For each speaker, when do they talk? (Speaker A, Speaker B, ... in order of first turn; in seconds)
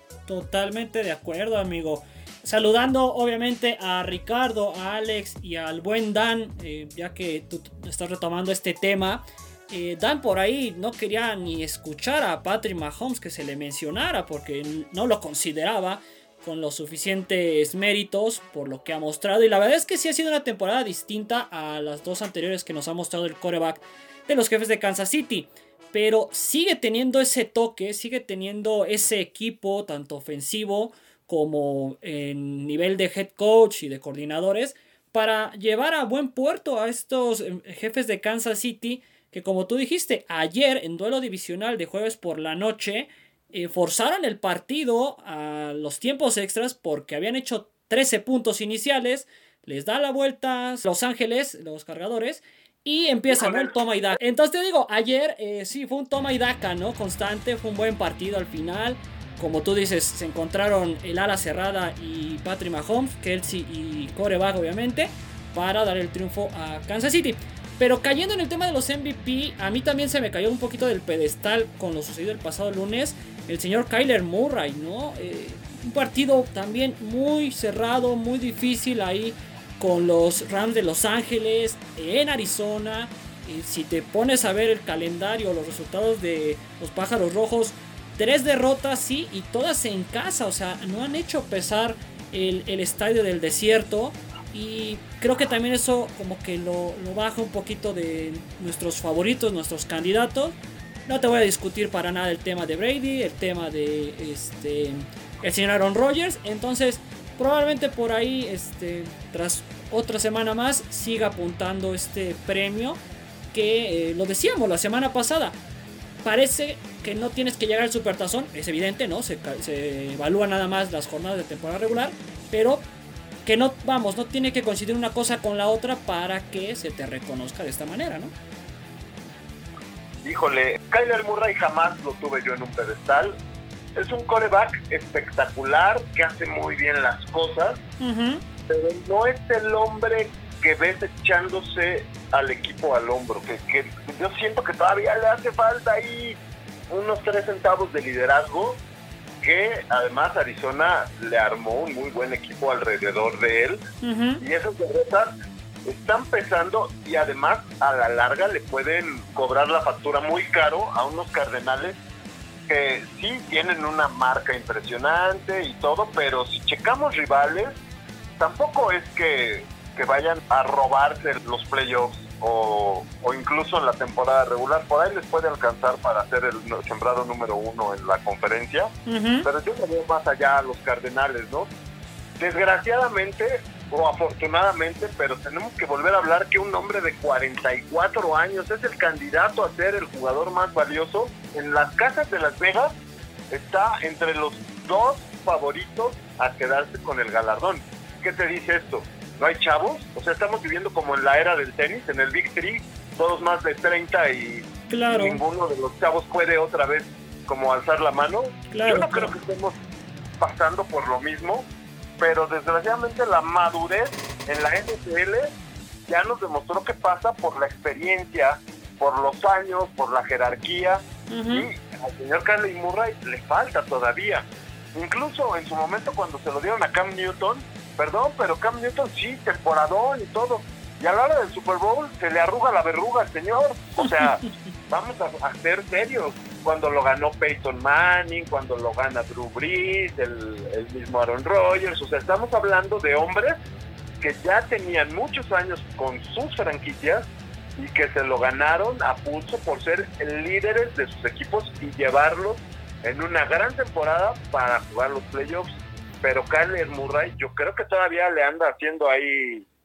Speaker A: 0.3-113.0, 113.5-115.5, 116.2-122.8, 123.4-128.3, 138.0-138.4, 154.0-154.4, 179.1-179.5, 204.9-205.4, 208.7-209.3, 221.3-221.7
Speaker B: 130.2-133.3, 133.9-137.8, 138.7-146.4, 146.9-148.8, 149.4-153.8, 154.4-155.3, 155.8-162.0, 162.7-167.8, 168.4-181.7, 182.4-192.9, 193.5-209.8, 210.4-211.7, 212.2-215.5, 216.1-243.6, 244.2-259.7